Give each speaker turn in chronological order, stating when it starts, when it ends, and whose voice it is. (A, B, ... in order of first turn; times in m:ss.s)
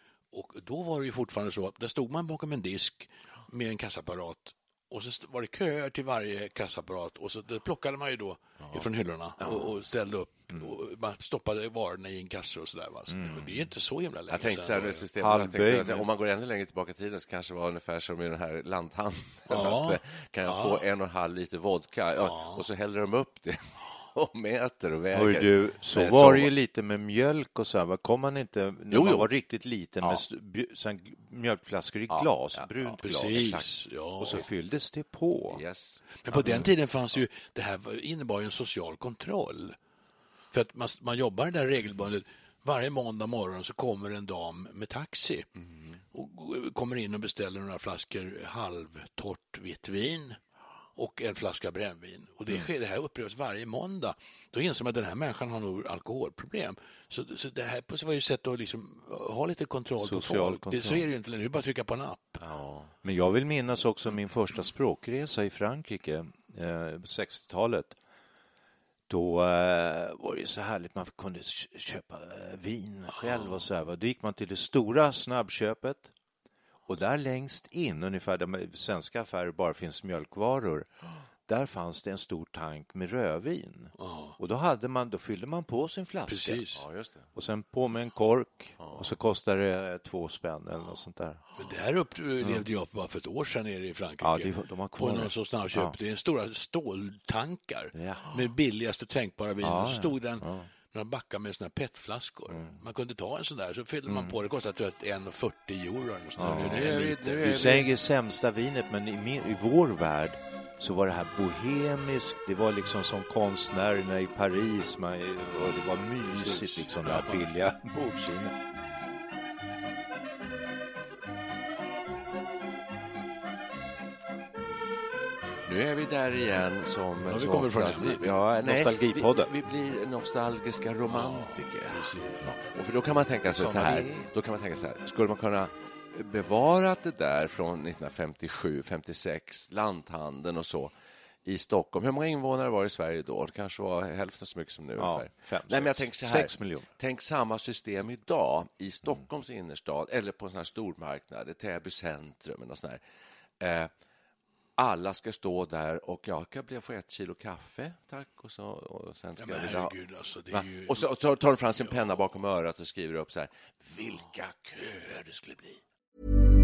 0:00.3-0:15.0 A
0:08.6-0:08.9 B
0:13.1-0:13.5 C
0:14.3-0:26.5 B
0:15.2-0:16.1 C
0:19.5-0:20.8 A
0:22.2-0:22.6 A
0:25.1-0:33.6 C
0:28.9-0:29.3 B
0:32.1-0:33.7 B
0:33.0-0:34.4 A
0:34.2-0:35.6 C
0:35.5-0:36.6 B
0:36.2-0:39.8 A
0:40.5-0:45.5 A
0:45.6-0:46.0 B
0:46.1-0:50.4 A
0:51.0-1:02.4 A
1:00.0-1:01.1 C
1:02.4-1:02.9 B
1:03.0-1:08.0 C
1:09.1-1:16.1 C
1:16.9-1:20.9 C
1:21.5-1:26.7 C
1:24.0-1:24.4 A
1:26.3-1:26.8 A
1:26.8-1:27.2 B
1:27.4-1:31.4 C
1:28.8-1:29.1 B
1:31.6-1:47.6 A
1:34.2-1:36.0 C
1:37.9-1:38.3 C
1:39.6-1:40.7 C
1:44.1-1:44.3 C
1:46.4-1:58.6 C
1:46.5-1:47.9 B
1:56.8-1:57.3 A
2:05.7-2:20.9 B
2:07.3-2:08.3 A
2:08.6-2:09.5 C
2:11.1-2:12.5 A
2:13.6-2:14.3 C
2:21.4-2:33.0 B
2:25.0-2:26.9 C
2:33.6-2:33.9 B
2:34.8-2:40.0 B
2:39.4-2:41.1 A
2:40.5-2:45.8 B